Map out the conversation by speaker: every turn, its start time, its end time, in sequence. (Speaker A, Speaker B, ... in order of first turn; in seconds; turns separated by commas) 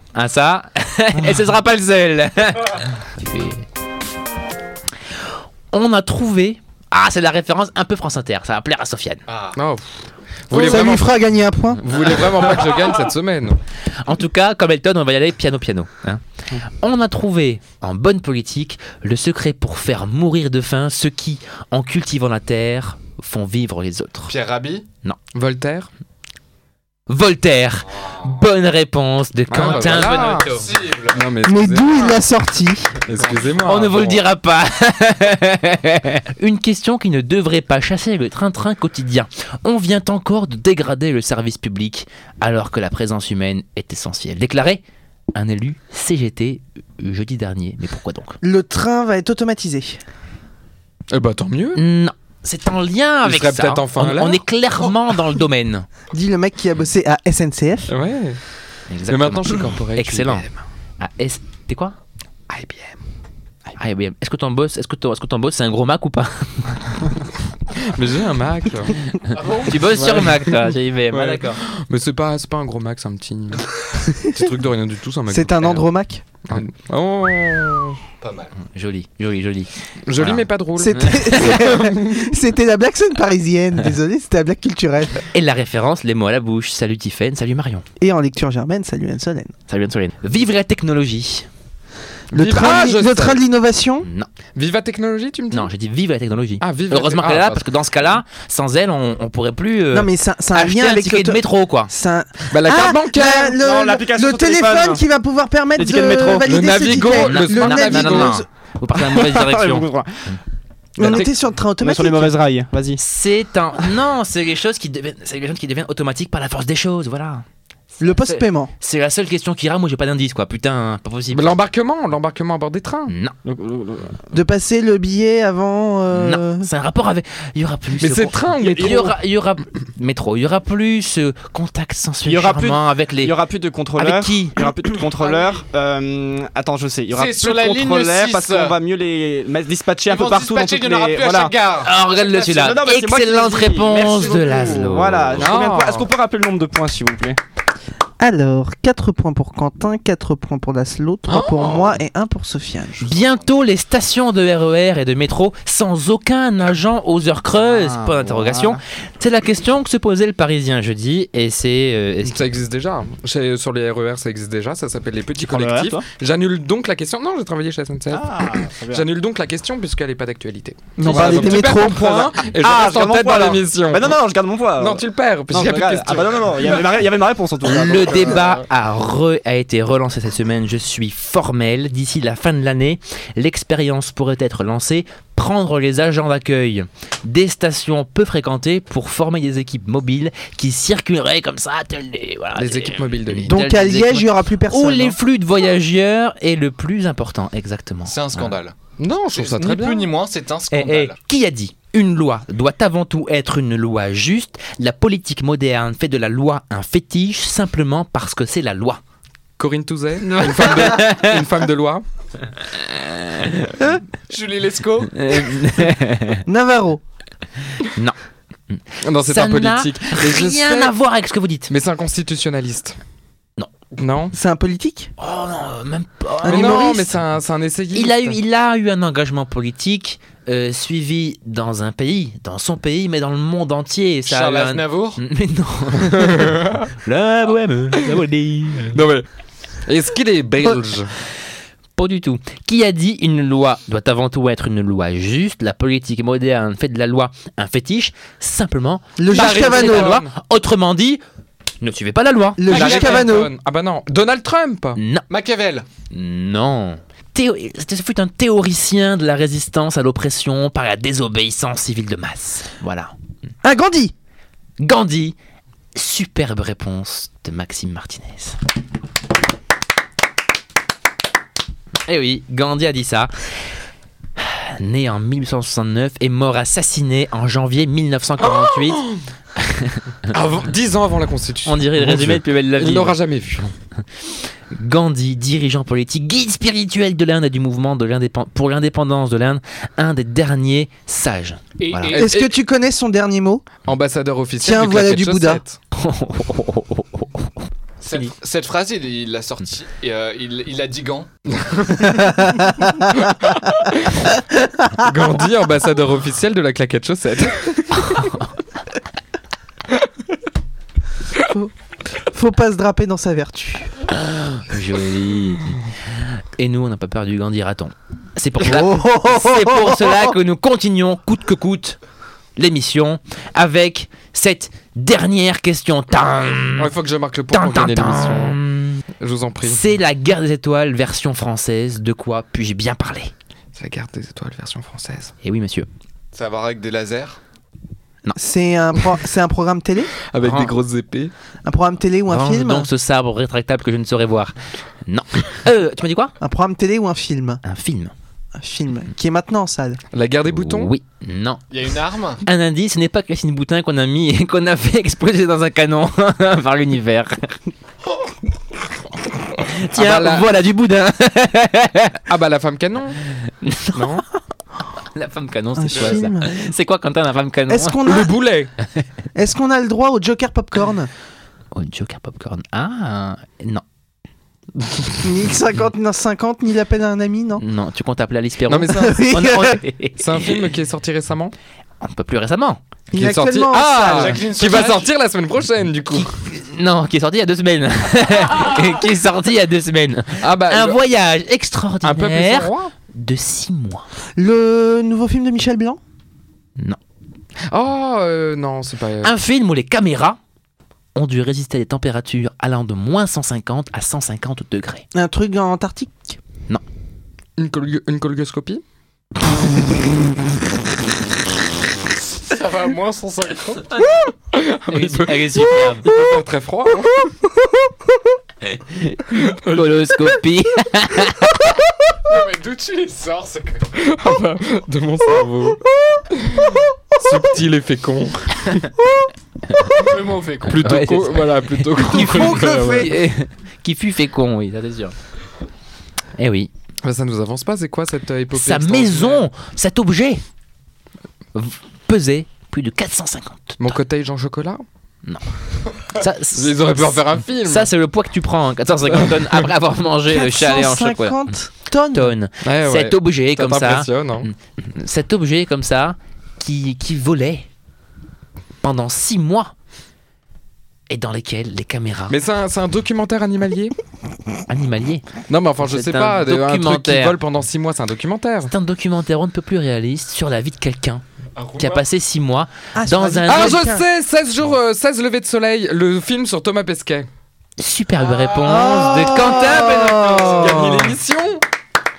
Speaker A: 0.1-3.6, Speaker A: 5.7-9.2, Speaker B: 9.3-9.6, Speaker C: 9.6-9.9, Speaker C: 10.5-11.1, Speaker D: 10.5-11.8, Speaker C: 11.8-13.6, Speaker A: 14.0-16.2, Speaker A: 16.8-24.3, Speaker B: 24.3-24.9, Speaker C: 25.3-25.9, Speaker A: 27.1-30.7, Speaker C: 29.5-32.1, Speaker B: 29.6-31.3, Speaker D: 31.4-33.0, Speaker C: 33.0-34.2, Speaker B: 33.2-33.6, Speaker A: 33.6-44.8, Speaker A: 45.4-48.4, Speaker D: 48.4-50.0, Speaker C: 51.1-51.9, Speaker A: 51.8-55.9, Speaker C: 53.2-54.4, Speaker D: 56.1-57.9, Speaker C: 57.9-58.4, Speaker A: 58.9-62.0, Speaker C: 59.1-60.5, Speaker C: 62.5-63.0, Speaker A: 63.8-67.1, Speaker C: 67.8-69.1, Speaker A: 69.3-71.6, Speaker B: 69.3-69.8, Speaker C: 69.8-75.8, Speaker D: 74.1-74.5, Speaker D: 75.3-76.2, Speaker C: 76.5-78.0, Speaker B: 78.2-78.6, Speaker A: 78.7-81.4, Speaker C: 80.1-82.4, Speaker D: 80.8-85.2, Speaker A: 85.3-87.9, Speaker D: 88.0-89.5, Speaker A: 89.7-91.5, Speaker C: 92.3-93.4, Speaker D: 92.3-94.1, Speaker A: 94.0-94.3, Speaker C: 94.5-95.7, Speaker A: 95.5-101.9, Speaker C: 96.6-97.7, Speaker D: 99.9-108.5, Speaker C: 102.5-103.6, Speaker E: 103.6-105.0, Speaker E: 105.8-106.6, Speaker C: 106.4-108.4, Speaker A: 107.0-109.9, Speaker E: 109.0-110.4, Speaker D: 111.0-112.3, Speaker C: 111.0-111.3, Speaker E: 111.8-113.0, Speaker A: 113.0-117.5, Speaker A: 118.0-121.6, Speaker D: 118.0-118.7, Speaker C: 121.3-123.1, Speaker A: 123.1-123.3, Speaker E: 123.4-124.3, Speaker D: 124.3-126.7, Speaker A: 126.1-133.3, Speaker C: 128.0-129.2, Speaker E: 132.2-141.5, Speaker A: 134.0-134.6, Speaker B: 135.2-135.6, Speaker B: 137.1-138.8, Speaker B: 140.1-142.8, Speaker A: 141.8-145.5, Speaker E: 142.3-147.4, Speaker C: 145.4-146.1, Speaker D: 148.2-153.1, Speaker C: 151.3-152.0, Speaker B: 153.0-153.5, Speaker A: 153.0-162.4, Speaker E: 157.6-158.8, Speaker C: 162.2-174.2, Speaker E: 165.4-166.1, Speaker E: 168.1-169.1, Speaker D: 171.0-172.4, Speaker E: 171.0-178.6, Speaker C: 174.8-176.8, Speaker A: 177.7-198.5, Speaker C: 192.6-193.6, Speaker D: 193.4-195.2, Speaker B: 198.1-198.7, Speaker C: 199.0-200.1, Speaker B: 199.3-201.2, Speaker A: 200.7-209.0, Speaker C: 209.6-212.1, Speaker A: 210.2-211.4, Speaker A: 212.7-214.0, Speaker B: 214.3-215.5, Speaker A: 215.1-216.4, Speaker D: 216.5-217.0, Speaker A: 217.9-218.2, Speaker A: 218.7-221.7, Speaker C: 219.0-220.9, Speaker C: 221.7-223.0, Speaker C: 224.0-224.3, Speaker D: 224.3-225.1, Speaker A: 225.2-227.2, Speaker C: 226.4-228.4, Speaker D: 226.5-226.9, Speaker A: 227.9-239.0, Speaker B: 234.3-235.2, Speaker C: 236.0-236.9, Speaker C: 238.9-239.3, Speaker C: 239.9-241.1, Speaker A: 242.0-251.2, Speaker D: 249.2-250.2, Speaker C: 249.3-250.3, Speaker A: 251.8-252.7, Speaker D: 252.6-253.5, Speaker B: 252.7-253.3, Speaker C: 252.7-255.0, Speaker A: 254.9-255.2, Speaker B: 255.3-255.9, Speaker A: 256.1-263.1, Speaker D: 263.6-264.1, Speaker A: 264.8-265.4, Speaker A: 265.9-268.6, Speaker A: 272.1-273.3, Speaker A: 274.4-279.1, Speaker C: 278.4-279.2, Speaker A: 279.6-280.1, Speaker C: 280.3-283.7, Speaker A: 281.6-283.2, Speaker A: 284.7-292.2, Speaker B: 291.8-292.3, Speaker C: 292.1-292.5, Speaker D: 292.1-293.7, Speaker C: 293.9-295.8, Speaker D: 294.6-295.6, Speaker A: 295.9-297.5, Speaker B: 298.0-301.3, Speaker C: 301.6-302.7, Speaker D: 302.3-303.2, Speaker C: 303.9-304.3, Speaker C: 304.9-308.3, Speaker A: 308.1-308.5, Speaker D: 312.2-313.9, Speaker A: 314.1-322.0, Speaker D: 318.6-320.4, Speaker A: 322.6-326.9, Speaker C: 326.8-328.6, Speaker A: 327.5-329.0, Speaker C: 329.2-329.8, Speaker A: 329.6-333.3, Speaker C: 333.8-335.3, Speaker A: 335.4-335.9, Speaker B: 336.3-337.4, Speaker D: 338.4-340.1, Speaker C: 340.3-341.3, Speaker A: 340.4-340.8, Speaker D: 341.6-342.9, Speaker A: 342.3-344.5, Speaker A: 345.1-346.3, Speaker D: 346.4-347.6, Speaker A: 347.6-348.1, Speaker D: 348.6-350.0, Speaker C: 350.1-350.9, Speaker A: 350.5-351.6, Speaker B: 351.7-352.4, Speaker A: 352.4-357.6, Speaker A: 359.6-362.2, Speaker C: 359.9-360.5, Speaker C: 362.3-363.2, Speaker A: 363.6-364.2, Speaker C: 363.9-364.2, Speaker A: 365.1-368.1, Speaker D: 365.8-366.5, Speaker C: 365.9-366.2, Speaker D: 367.7-368.3, Speaker C: 368.0-368.7, Speaker D: 369.4-371.1, Speaker A: 371.7-373.8, Speaker D: 375.2-377.6, Speaker A: 377.6-380.7, Speaker C: 378.7-379.3, Speaker D: 378.9-379.8, Speaker C: 380.2-381.5, Speaker A: 382.0-382.8, Speaker D: 383.1-384.4, Speaker C: 383.1-386.3, Speaker B: 383.7-385.1, Speaker A: 386.1-394.1, Speaker C: 390.4-391.0, Speaker C: 392.0-392.9, Speaker D: 394.4-396.0, Speaker C: 397.7-399.3, Speaker A: 399.2-400.4, Speaker A: 401.1-405.1, Speaker D: 405.1-406.4, Speaker C: 407.6-408.8, Speaker B: 412.4-413.9, Speaker C: 414.5-417.3, Speaker A: 414.9-416.1, Speaker A: 418.7-421.7, Speaker C: 419.4-420.3, Speaker B: 422.3-423.9, Speaker C: 424.0-428.9, Speaker A: 429.7-430.1, Speaker B: 429.9-430.8, Speaker C: 430.6-433.1, Speaker A: 430.7-435.1, Speaker D: 432.2-433.0, Speaker A: 436.4-436.7, Speaker C: 437.0-439.5, Speaker A: 438.5-440.4, Speaker A: 441.6-444.0, Speaker C: 443.8-444.8, Speaker A: 446.0-451.4, Speaker C: 446.5-447.9, Speaker C: 449.2-449.6, Speaker D: 450.3-452.3, Speaker A: 452.1-457.7, Speaker C: 452.6-454.5, Speaker A: 458.8-459.7, Speaker A: 461.1-462.4, Speaker C: 462.3-463.9, Speaker A: 464.7-465.3, Speaker C: 465.5-468.7, Speaker A: 465.8-467.4, Speaker A: 468.6-471.2, Speaker B: 471.6-472.0, Speaker A: 471.8-473.9, Speaker D: 472.9-474.1, Speaker C: 473.5-477.3, Speaker A: 477.8-480.3, Speaker D: 478.6-481.2, Speaker C: 479.1-481.6